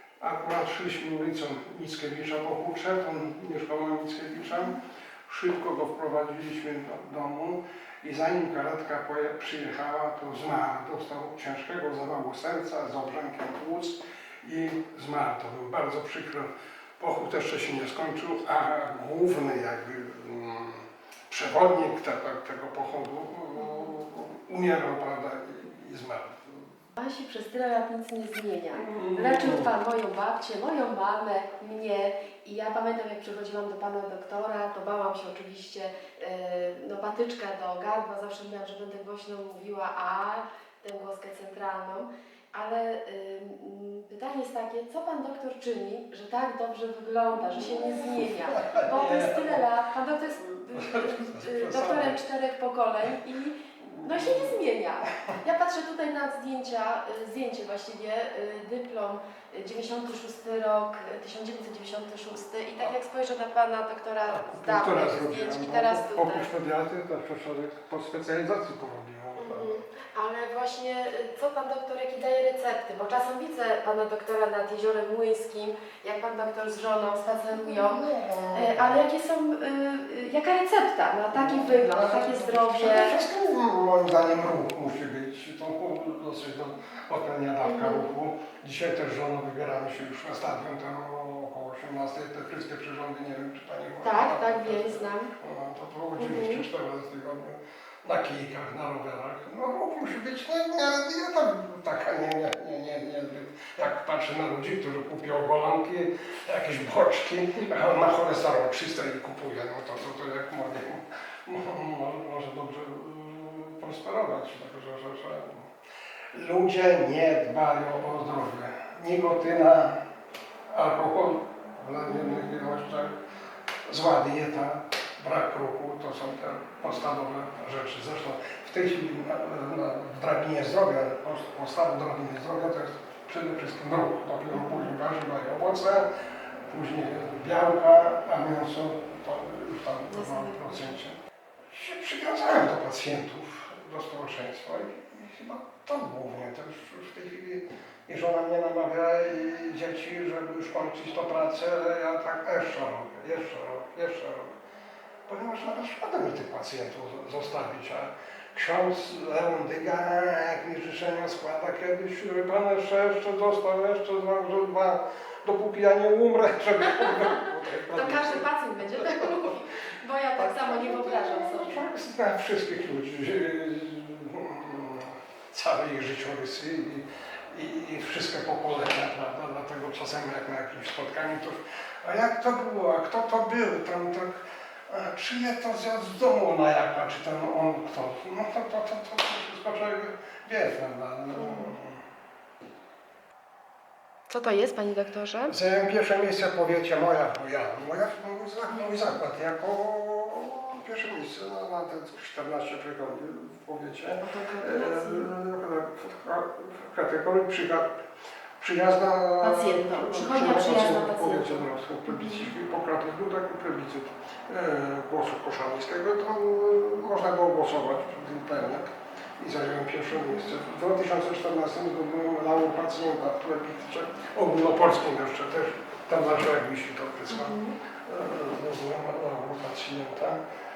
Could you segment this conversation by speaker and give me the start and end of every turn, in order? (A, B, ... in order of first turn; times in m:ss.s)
0:00.2-0:26.7 A
0:26.9-1:06.5 B
0:28.7-0:29.7 A
0:47.6-0:49.6 A
0:50.3-0:52.2 A
0:53.8-0:54.6 A
1:04.3-1:09.7 A
1:09.4-1:23.2 B
1:17.5-1:19.0 A
1:21.3-1:55.7 A
1:27.6-1:28.1 B
1:34.0-1:35.3 B
1:36.2-1:36.6 B
1:56.3-2:00.0 A
2:00.7-2:03.2 A
2:03.9-2:16.1 A
2:14.6-2:14.9 B
2:16.7-2:21.2 A
2:20.1-2:21.0 B
2:21.7-2:34.5 A
2:35.3-2:49.5 A
2:47.9-2:51.9 B
2:50.4-3:12.0 A
3:11.4-3:11.7 B
3:14.3-3:15.5 B
3:15.5-3:27.9 A
3:18.7-3:19.0 B
3:24.2-3:25.3 B
3:28.6-3:50.4 A
3:29.4-3:32.5 B
3:40.2-3:40.4 B
3:47.3-3:47.8 B